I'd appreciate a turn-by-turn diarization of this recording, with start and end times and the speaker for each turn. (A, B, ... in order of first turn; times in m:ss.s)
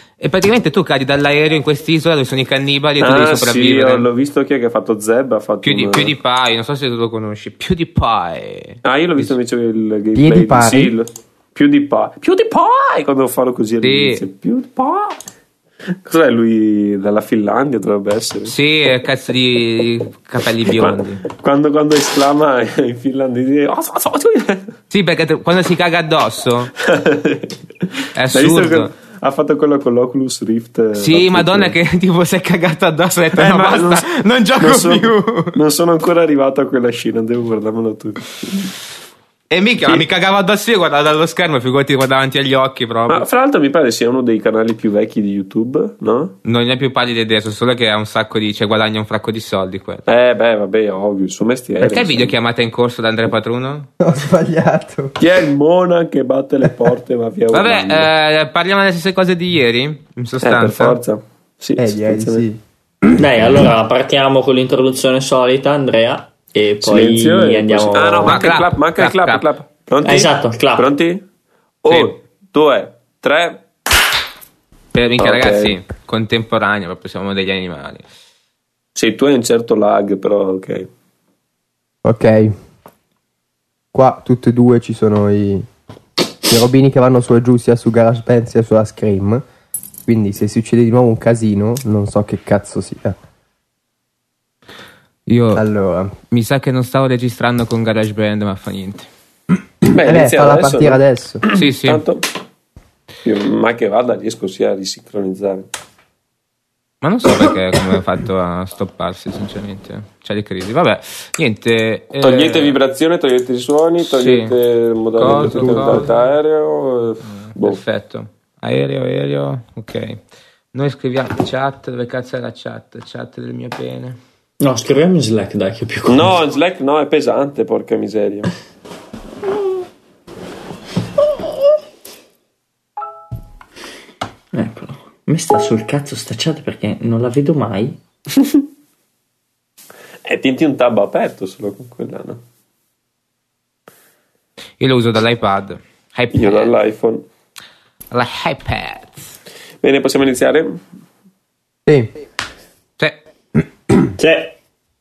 0:00.2-0:04.1 A
0:03.0-0:06.1 B
0:05.6-0:08.8 A
0:08.8-0:15.2 B
0:10.2-0:10.9 C
0:13.8-0:14.2 A
0:16.0-0:18.5 B
0:18.4-0:21.2 A
0:20.7-0:24.6 B
0:24.9-0:26.7 A
0:26.8-0:31.8 B
0:28.2-0:28.9 A
0:30.9-0:35.6 A
0:33.3-0:34.0 B
0:34.6-0:38.7 B
0:39.5-0:43.2 A
0:43.1-0:46.3 B
0:46.4-0:50.0 A
0:50.1-0:52.4 B
0:51.8-0:53.9 A
0:54.0-0:55.2 C
0:55.2-0:58.1 B
0:57.5-1:01.0 A
1:00.4-1:02.4 B
1:01.8-1:02.6 C
1:03.1-1:08.4 D
1:06.8-1:11.2 B
1:08.2-1:09.5 A
1:10.0-1:10.9 D
1:11.8-1:13.6 B
1:11.9-1:12.2 A
1:14.9-1:18.0 A
1:15.2-1:15.8 B
1:19.0-1:20.9 B
1:22.0-1:22.5 C
1:23.9-1:25.6 C
1:26.5-1:29.4 C
1:30.0-1:33.2 C
1:35.3-1:35.6 A
1:35.5-1:36.2 C
1:36.3-1:39.1 A
1:39.9-1:41.4 C
1:39.9-1:42.3 B
1:41.5-1:42.0 A
1:43.2-1:45.7 B
1:47.0-1:52.8 A
1:52.2-1:57.8 B
1:54.0-1:54.6 A
1:55.2-1:56.1 A
1:55.2-1:56.1 C
1:57.3-2:00.2 A
2:00.7-2:04.2 A
2:04.6-2:06.4 D
2:06.0-2:08.5 B
2:14.5-2:18.0 D
2:20.2-2:22.4 B
2:24.8-2:26.7 A
2:26.3-2:27.2 B
2:28.1-2:29.2 A
2:29.8-2:30.8 B
2:34.2-2:34.5 D